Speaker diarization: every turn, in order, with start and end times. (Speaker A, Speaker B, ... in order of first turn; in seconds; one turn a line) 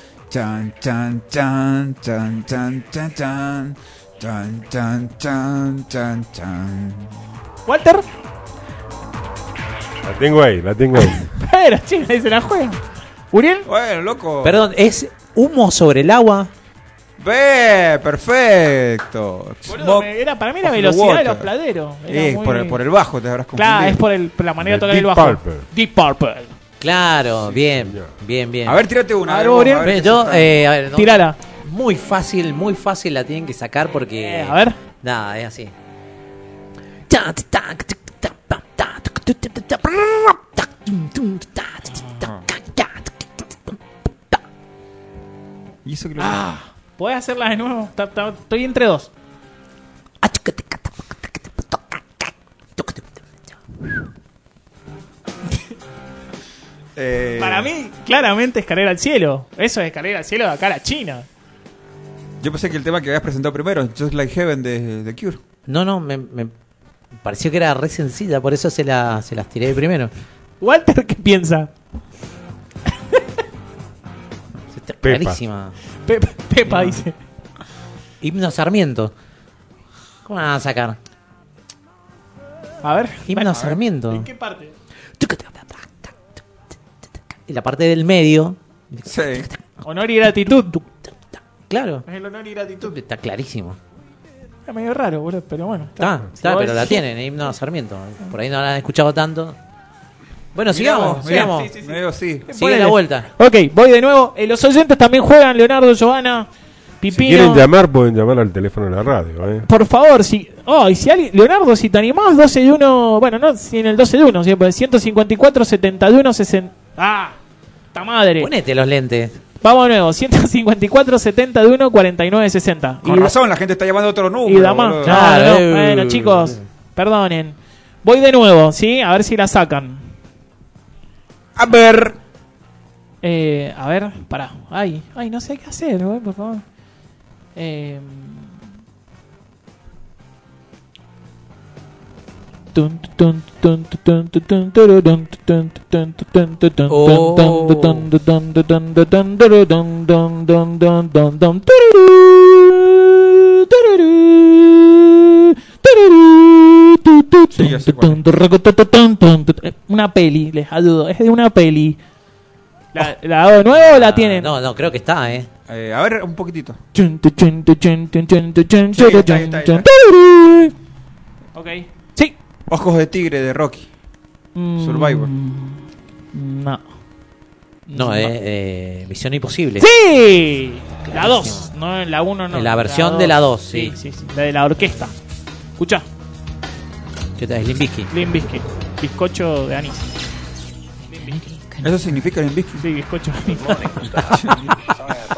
Speaker A: 0.3-7.1
Speaker B: 7.7-8.0
Speaker C: 10.0-11.3
Speaker B: 11.0-12.8
Speaker B: 13.3-13.7
Speaker A: 13.7-14.6
Speaker D: 14.4-16.5
Speaker A: 17.2-20.1
Speaker B: 19.7-22.8
Speaker A: 20.6-21.5
Speaker A: 22.1-24.0
Speaker B: 23.5-26.5
Speaker C: 24.6-25.6
Speaker D: 26.8-28.8
Speaker C: 27.7-28.1
Speaker A: 28.6-30.5
Speaker B: 29.2-29.9
Speaker D: 29.8-35.7
Speaker B: 30.9-31.4
Speaker B: 34.1-34.8
Speaker D: 37.1-44.4
Speaker A: 45.8-46.4
Speaker B: 46.2-49.1
Speaker D: 50.2-53.6
Speaker A: 57.0-57.7
Speaker B: 57.4-61.3
Speaker A: 62.4-65.4
Speaker D: 65.7-66.5
Speaker D: 67.2-70.1
Speaker B: 70.6-71.7
Speaker B: 72.9-73.2
Speaker D: 74.7-75.8
Speaker C: 75.0-75.4
Speaker B: 76.0-77.2
Speaker D: 76.7-77.0
Speaker D: 78.2-79.1
Speaker D: 80.2-81.0
Speaker B: 82.8-84.7
Speaker D: 83.2-84.3
Speaker D: 85.2-86.4
Speaker D: 87.3-89.7
Speaker A: 89.1-89.5
Speaker B: 89.8-90.8
Speaker D: 90.7-92.0
Speaker B: 92.0-92.9
Speaker D: 92.8-93.8
Speaker B: 94.7-97.0
Speaker D: 96.0-99.6
Speaker D: 100.5-101.7
Speaker A: 100.7-102.5
Speaker B: 100.9-106.5
Speaker D: 102.5-103.3
Speaker B: 107.0-107.7
Speaker C: 107.1-109.7
Speaker B: 109.7-117.4
Speaker B: 117.9-118.5
Speaker D: 118.4-119.4
Speaker B: 119.6-123.3
Speaker A: 123.0-125.2
Speaker B: 124.5-130.1
Speaker D: 125.0-126.6
Speaker A: 131.6-132.2
Speaker B: 133.2-136.6
Speaker B: 137.6-138.5
Speaker B: 142.7-162.0
Speaker D: 146.9-148.1
Speaker A: 157.5-158.2
Speaker B: 162.9-164.5
Speaker D: 163.7-165.5
Speaker A: 165.7-166.8
Speaker B: 166.9-170.7
Speaker A: 168.9-169.9
Speaker B: 171.5-172.3
Speaker A: 172.7-173.9
Speaker B: 174.5-176.8
Speaker A: 174.8-175.3
Speaker B: 177.9-178.3
Speaker D: 177.9-179.9
Speaker B: 179.8-185.1
Speaker D: 181.1-181.7
Speaker D: 182.5-183.9
Speaker B: 185.8-186.1
Speaker D: 187.4-188.1
Speaker B: 188.1-190.1
Speaker B: 191.1-191.4
Speaker D: 191.3-191.9
Speaker A: 191.8-192.8
Speaker B: 192.8-194.1
Speaker D: 193.9-195.1
Speaker A: 194.2-194.7